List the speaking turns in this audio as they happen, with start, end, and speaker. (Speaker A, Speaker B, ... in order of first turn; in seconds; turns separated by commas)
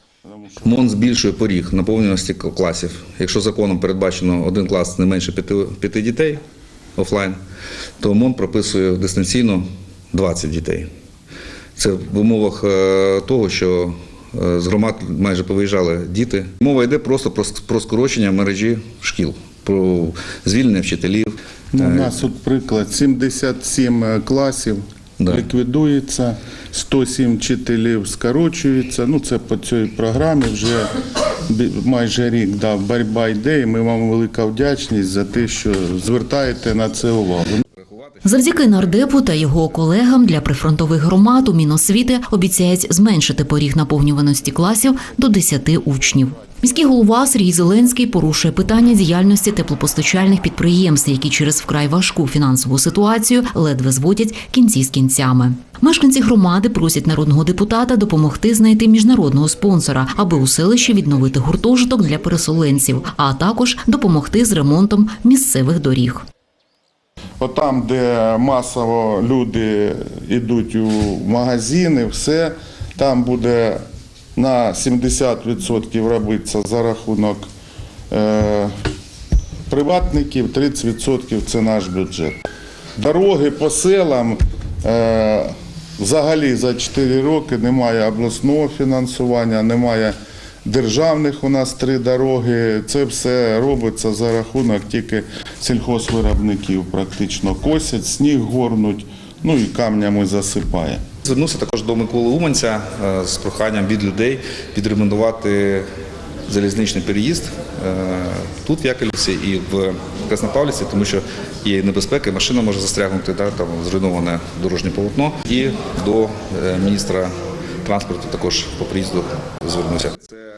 Speaker A: 0.2-0.9, Speaker B: 0.6-6.4, Speaker B: 7.0-7.4, Speaker B: 8.0-10.9, Speaker B: 11.8-22.1, Speaker A: 21.7-30.9, Speaker B: 25.2-25.4, Speaker A: 31.5-37.6, Speaker B: 37.8-38.2, Speaker C: 38.2-66.2, Speaker A: 67.4-73.8, Speaker A: 74.3-77.4, Speaker A: 78.1-78.7, Speaker A: 79.7-82.4, Speaker A: 83.0-101.0, Speaker B: 101.2-105.9, Speaker B: 106.5-120.3